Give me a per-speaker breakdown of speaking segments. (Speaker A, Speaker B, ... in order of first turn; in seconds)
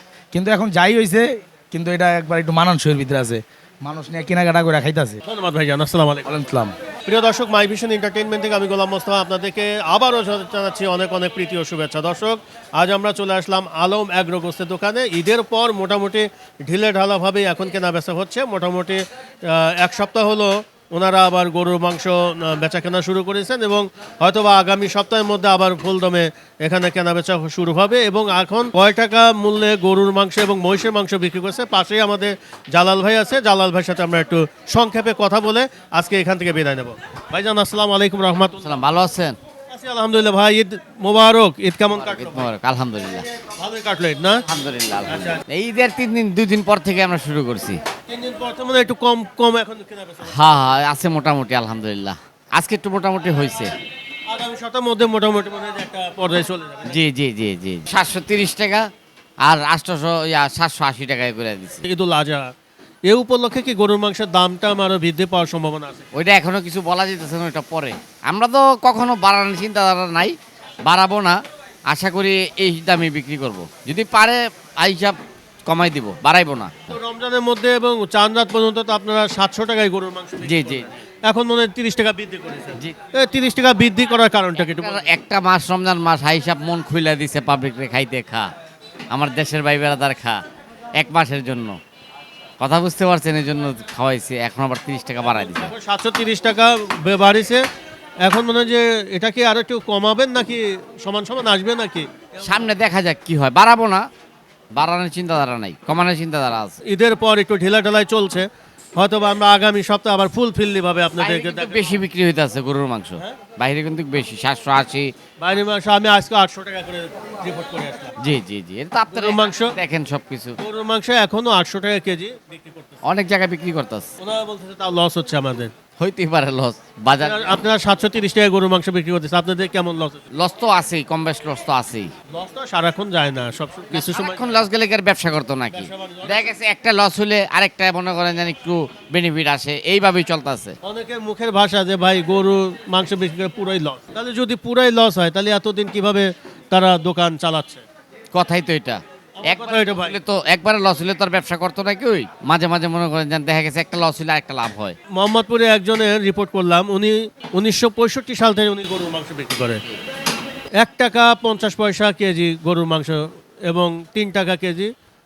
Speaker A: 0.3-5.2, 6.3-6.7
Speaker B: 5.2-6.3, 7.1-38.8, 39.7-42.5, 43.6-44.4, 45.1-45.4, 48.1-50.6, 54.3-57.0, 61.9-62.5, 63.1-66.1, 76.9-85.1, 95.2-97.6, 98.2-102.6, 106.9-112.0, 115.4-118.1, 119.1-119.7, 120.6-123.0, 124.2-125.7, 127.2-130.2, 132.3-134.6, 135.7-136.5, 140.8-147.8, 149.4-150.2, 155.2-159.8, 160.8-164.9
Speaker C: 38.6-39.4, 42.0-43.3, 44.5-47.8, 50.3-53.7, 56.9-58.9, 59.4-61.8, 66.2-76.7, 80.4-80.8, 84.8-88.5, 89.1-90.4, 91.0-91.8, 92.6-95.7, 102.4-104.0, 104.7-106.7, 111.2-115.1, 118.2-120.6, 123.0-124.1, 126.0-127.5, 130.3-132.1, 133.9-140.7, 148.3-154.9